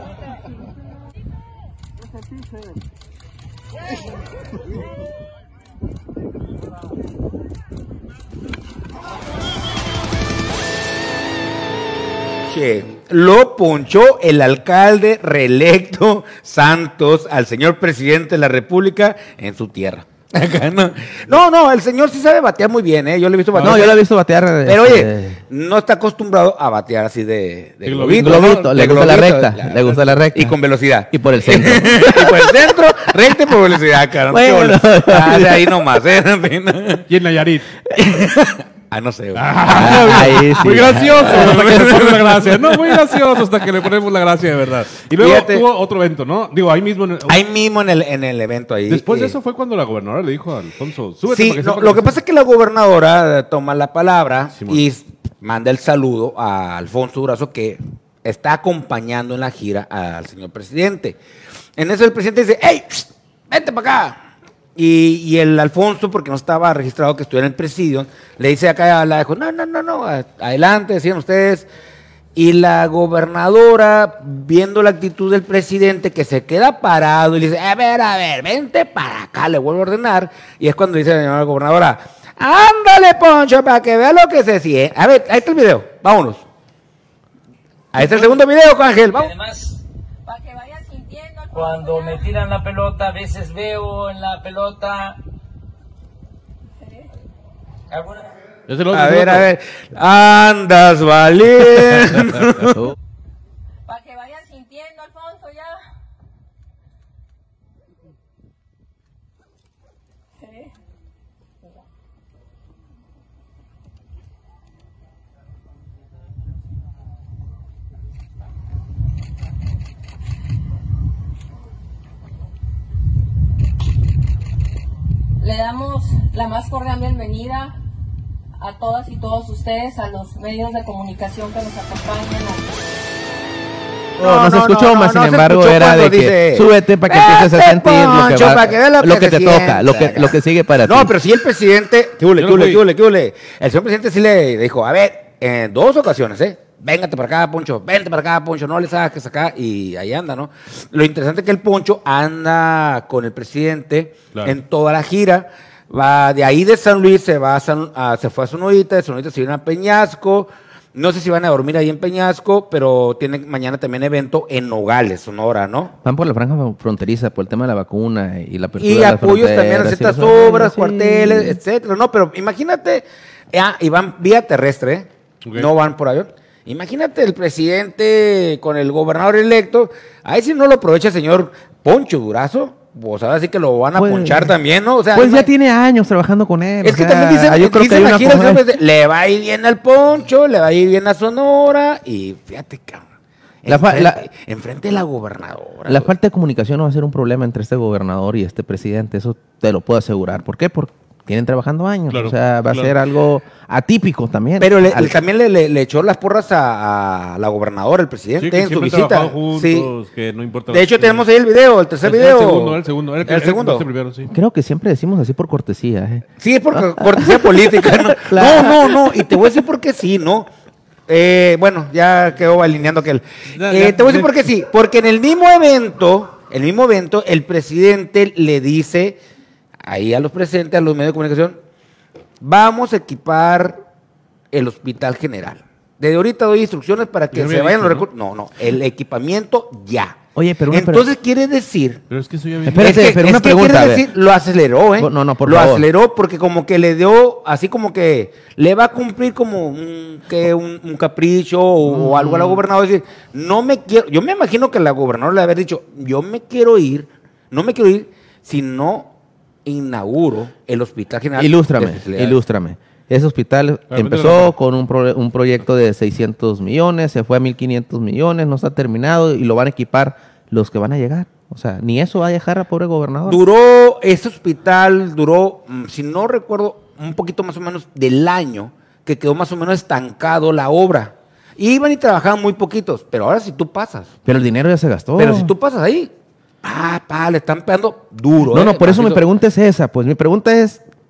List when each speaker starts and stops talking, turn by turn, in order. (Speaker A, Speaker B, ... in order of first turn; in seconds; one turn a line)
Speaker A: 12.5-24.0
Speaker B: 23.6-23.9
Speaker C: 23.6-25.4
Speaker A: 24.7-37.1
Speaker B: 27.9-28.5
Speaker C: 28.1-30.6
Speaker C: 31.1-32.8
Speaker C: 34.3-35.8
Speaker B: 37.1-37.7
Speaker A: 38.0-43.2
Speaker B: 39.4-47.4
Speaker C: 39.7-41.6
Speaker A: 45.2-45.7
Speaker A: 47.3-49.4
Speaker B: 48.9-52.2
Speaker A: 51.3-61.2
Speaker A: 61.8-64.2
Speaker A: 64.8-71.7
Speaker A: 72.3-86.4
Speaker A: 87.9-89.3
Speaker D: 89.1-89.8
Speaker E: 90.2-92.3
Speaker D: 91.5-95.2
Speaker D: 97.9-98.3
Speaker B: 98.7-99.5
Speaker A: 98.9-102.8
Speaker B: 101.8-102.4
Speaker E: 103.9-105.8
Speaker E: 125.4-127.7
Speaker E: 128.6-132.7
Speaker C: 134.2-141.2
Speaker A: 134.2-165.9
Speaker B: 142.4-142.8
Speaker C: 166.0-171.6
Speaker A: 168.8-185.5
Speaker C: 184.0-184.6
Speaker C: 185.1-188.6
Speaker A: 186.8-193.1
Speaker A: 193.6-196.1
Speaker C: 193.7-194.3
Speaker C: 195.9-205.2
Speaker B: 202.1-202.9
Speaker A: 204.6-209.9
Speaker B: 208.4-211.2
Speaker A: 210.7-213.9
Speaker B: 212.0-214.3
Speaker C: 214.3-219.4
Speaker A: 216.4-220.5
Speaker A: 221.1-229.2
Speaker B: 223.6-224.3
Speaker A: 229.8-231.6
Speaker A: 232.4-233.8
Speaker A: 234.5-240.2
Speaker B: 237.3-238.1
Speaker C: 240.3-241.1
Speaker A: 240.7-242.0
Speaker B: 242.1-243.0
Speaker C: 242.7-244.1
Speaker A: 242.8-259.1
Speaker C: 245.0-245.9
Speaker C: 251.8-252.6
Speaker A: 259.6-262.4
Speaker C: 261.4-273.4
Speaker B: 263.9-264.5
Speaker A: 273.3-284.1
Speaker C: 284.2-285.5
Speaker A: 285.2-286.1
Speaker A: 286.6-289.2
Speaker C: 288.5-290.8